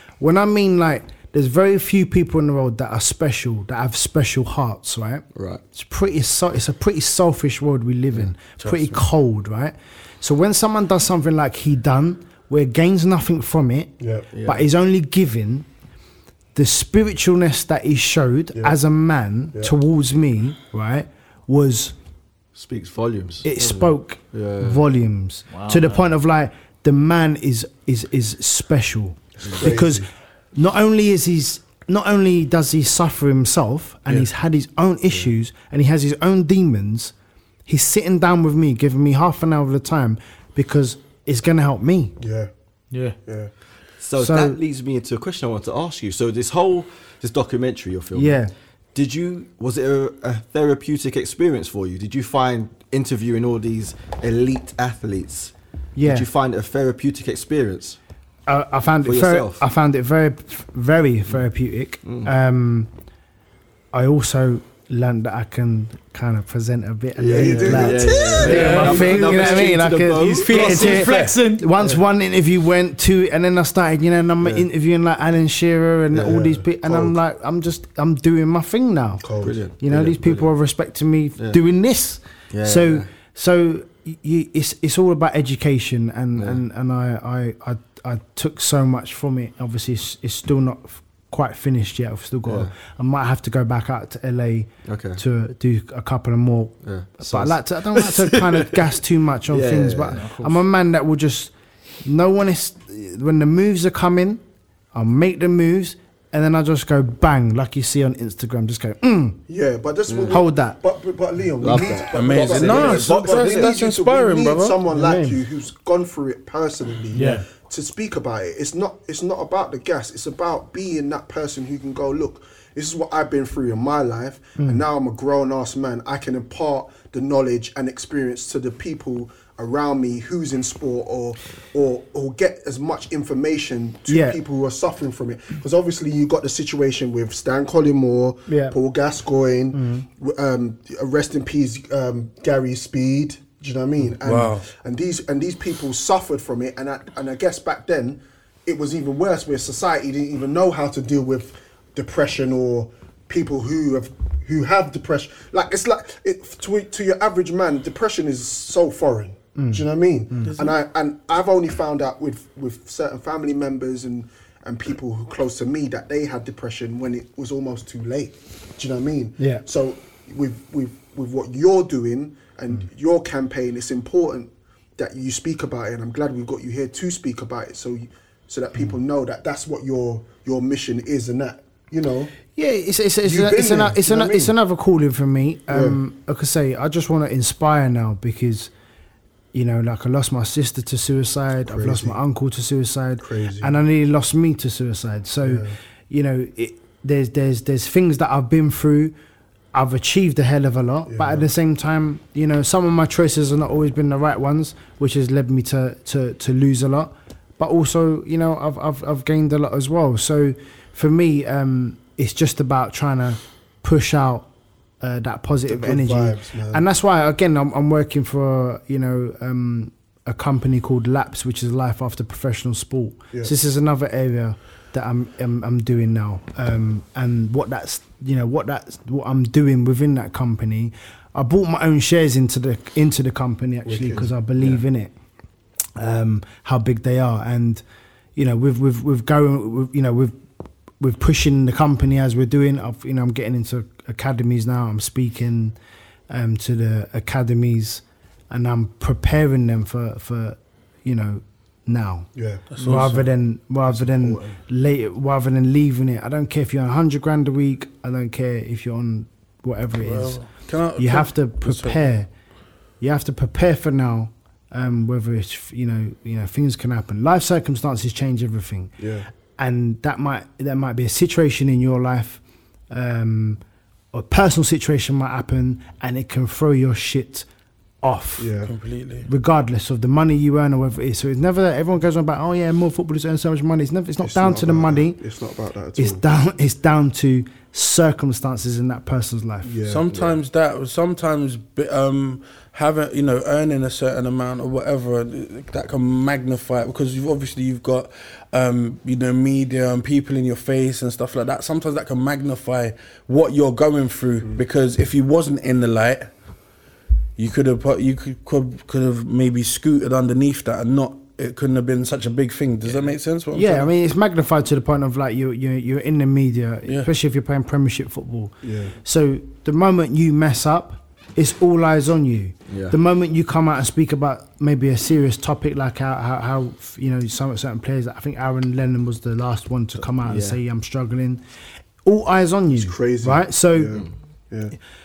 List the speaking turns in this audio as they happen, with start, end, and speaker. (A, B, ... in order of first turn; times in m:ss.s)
0:00.2-0:13.9 A
0:05.3-0:05.6 B
0:08.2-0:09.0 C
0:14.0-0:14.3 D
0:14.3-0:14.7 B
0:14.4-0:15.7 A
0:16.6-0:21.9 A
0:22.6-0:24.8 B
0:23.4-0:37.1 A
0:25.5-0:26.0 E
0:29.4-0:29.7 B
0:29.4-0:30.1 D
0:37.7-0:42.2 A
0:42.2-0:42.5 D
0:42.9-0:43.2 E
0:43.3-0:43.5 D
0:44.0-0:48.4 B
0:44.2-0:44.6 A
0:48.1-0:48.5 A
0:49.0-0:58.0 B
0:56.0-0:56.3 A
0:58.5-1:02.9 A
0:59.0-0:59.6 B
1:02.0-1:02.3 B
1:03.9-1:19.2 A
1:07.2-1:10.5 B
1:07.3-1:09.1 D
1:08.4-1:09.7 E
1:08.5-1:09.2 C
1:10.2-1:11.4 C
1:10.5-1:11.7 E
1:16.2-1:17.2 D
1:19.2-1:19.6 D
1:19.4-1:20.5 B
1:19.8-1:41.5 A
1:22.5-1:23.1 B
1:32.5-1:32.7 B
1:34.9-1:35.2 B
1:36.8-1:38.7 B
1:39.5-1:40.2 B
1:40.2-1:40.6 E
1:42.0-1:44.4 A
1:44.9-1:49.4 A
1:49.5-3:02.3 D
1:50.1-1:50.4 B
1:50.3-1:50.8 A
1:51.6-1:53.8 B
1:52.1-1:54.8 C
1:54.9-1:55.4 A
1:57.1-1:57.4 E
1:57.2-1:57.4 A
2:04.6-2:04.8 A
2:14.1-2:14.4 A
2:18.5-2:18.8 A
2:19.7-2:20.1 A
2:24.2-2:24.7 C
2:39.6-2:40.5 A
2:49.4-2:49.6 A
3:02.6-3:08.7 A
3:03.2-3:04.5 D
3:05.7-3:06.0 D
3:09.5-3:19.1 A
3:11.6-3:12.2 D
3:13.2-3:13.8 D
3:15.4-3:15.8 D
3:19.7-3:34.5 A
3:21.1-3:21.5 D
3:35.0-3:55.1 A
3:35.7-3:36.8 D
3:53.9-3:54.8 D
3:56.0-3:57.8 A
3:58.4-4:00.4 A
4:01.0-4:05.8 A
4:06.3-4:20.4 A
4:12.4-4:12.7 D
4:12.8-4:13.3 C
4:13.9-4:14.6 D
4:20.0-4:22.1 C
4:21.0-4:22.3 A
4:23.0-4:29.0 A
4:29.0-4:29.3 D
4:29.6-4:33.6 A
4:34.1-4:37.5 A
4:38.0-4:38.5 A
4:38.4-4:38.7 D
4:38.6-4:39.3 C
4:39.2-4:45.2 A
4:44.2-4:46.2 D
4:46.0-4:49.8 A
4:49.6-4:50.1 D
4:49.8-5:06.3 C
5:07.4-5:13.9 C
5:13.5-5:31.4 A
5:18.6-5:19.0 D
5:22.7-5:23.0 B
5:30.2-5:30.6 B
5:32.0-5:34.0 A
5:32.7-5:34.7 D